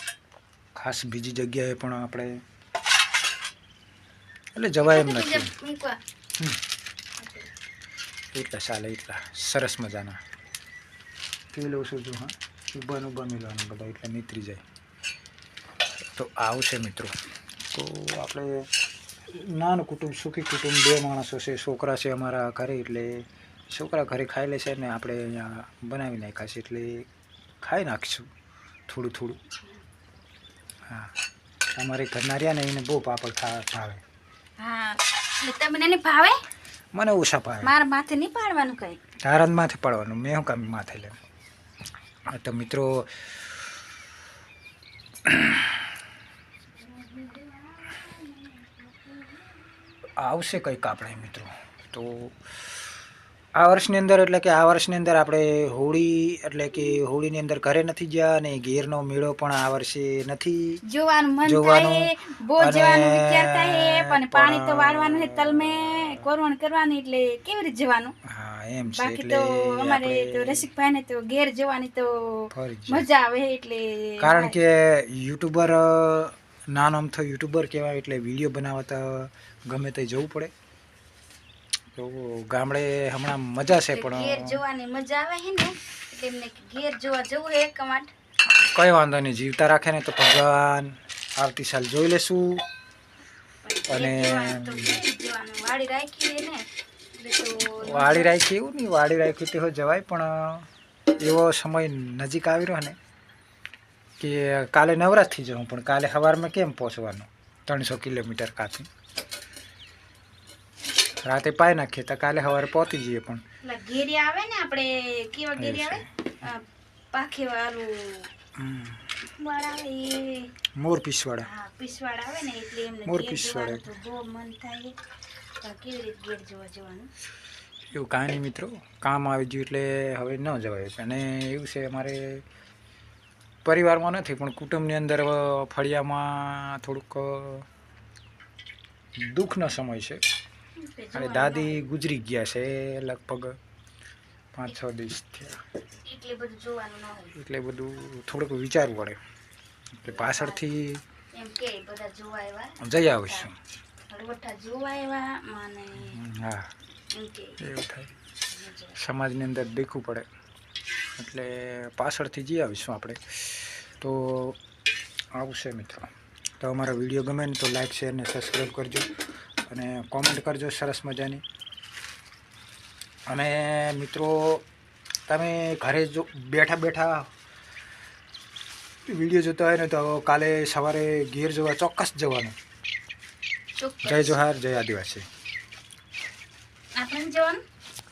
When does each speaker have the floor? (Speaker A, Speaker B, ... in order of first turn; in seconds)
Speaker A: 0.7-2.4, 4.5-5.5, 8.3-10.2, 11.5-14.6, 16.0-17.1, 17.7-18.6, 19.3-27.1, 27.6-28.3, 28.9-29.4, 30.9-31.1, 31.7-34.0, 36.9-37.7, 39.2-41.2, 42.3-43.4, 45.2-45.8, 50.2-52.5, 53.5-60.8, 61.5-66.2, 68.2-70.7, 72.5-73.1, 74.2-80.5, 81.9-84.6, 88.5-92.6, 93.9-95.0, 97.8-103.0, 104.2-108.9, 111.2-113.4, 115.6-116.1, 118.5-119.1, 120.8-121.5, 123.0-123.9, 127.9-132.4, 133.6-137.7, 139.2-140.2, 141.1-143.6, 144.5-145.6, 147.3-149.2, 150.0-151.0, 152.8-153.6, 156.0-156.7, 157.6-158.1, 158.9-160.2, 161.2-164.6, 165.3-169.1, 169.7-171.4, 173.3-174.6, 175.3-177.3, 179.1-182.6, 184.0-185.2
Speaker B: 4.8-6.0, 7.2-7.5, 34.6-36.4, 37.6-39.0, 46.8-49.5, 60.9-68.1, 69.0-74.5, 83.9-88.1, 93.6-98.3, 113.6-118.3, 119.3-120.5, 121.4-125.0, 125.6-127.1, 140.8-141.8, 146.0-147.4, 150.1-150.6, 151.3-153.5, 154.1-156.2, 157.1-157.6, 158.5-159.0, 183.8-184.4, 186.9-187.6